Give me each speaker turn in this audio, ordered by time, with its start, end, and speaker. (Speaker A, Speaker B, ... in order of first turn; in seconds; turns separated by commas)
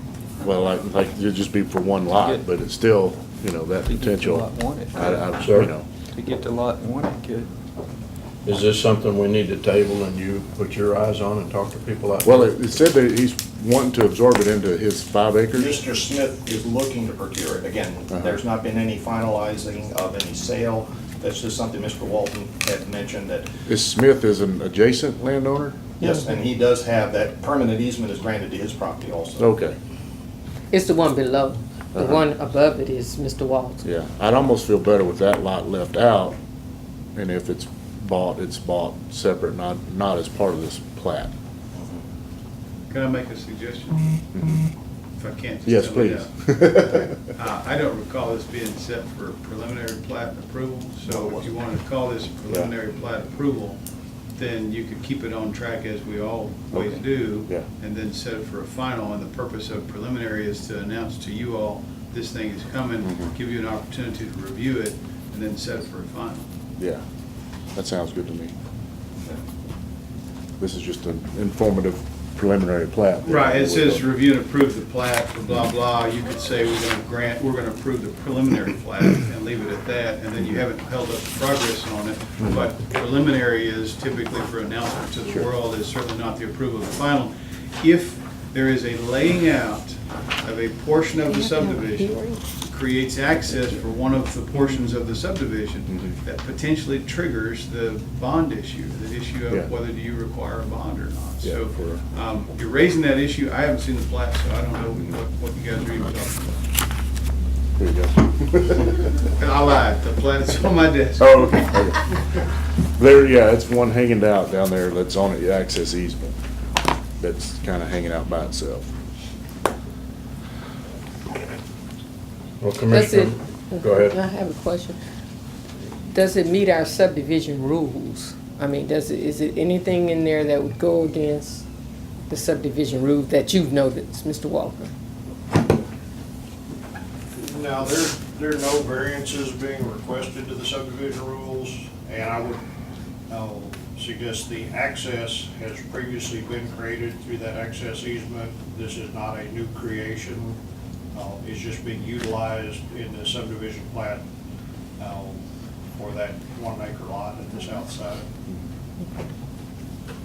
Speaker A: 0.4-5.8, Speaker B: 3.9-5.2, Speaker C: 5.4-5.7, Speaker B: 6.1-7.5, Speaker C: 8.4-12.5, Speaker A: 12.2-15.8, Speaker D: 15.5-23.5, Speaker A: 23.7-25.8, Speaker D: 26.0-29.5, Speaker E: 26.0-26.3, Speaker A: 29.4-29.8, Speaker E: 30.7-33.8, Speaker A: 31.9-32.2, Speaker A: 33.8-36.4, Speaker A: 37.1-41.3, Speaker D: 41.8-42.0, Speaker F: 42.9-44.2, Speaker A: 44.3-44.7, Speaker F: 45.2-46.3, Speaker A: 45.6-47.3, Speaker F: 47.3-53.8, Speaker D: 51.0-51.5, Speaker F: 54.4-66.5, Speaker A: 56.7-57.7, Speaker A: 63.0-63.3, Speaker A: 67.7-68.5, Speaker A: 70.6-74.1, Speaker F: 73.2-106.6, Speaker E: 91.2-92.4, Speaker A: 95.9-96.2, Speaker A: 101.4-102.0, Speaker A: 107.8-109.1, Speaker F: 109.3-111.9, Speaker A: 111.2-112.1, Speaker A: 113.0-116.3, Speaker A: 117.2-118.9, Speaker C: 122.6-124.2, Speaker E: 122.9-125.0, Speaker E: 126.1-131.6, Speaker E: 132.3-134.9, Speaker G: 137.3-142.6, Speaker G: 143.3-150.6, Speaker G: 151.1-154.2, Speaker G: 155.0-155.4, Speaker G: 155.9-158.3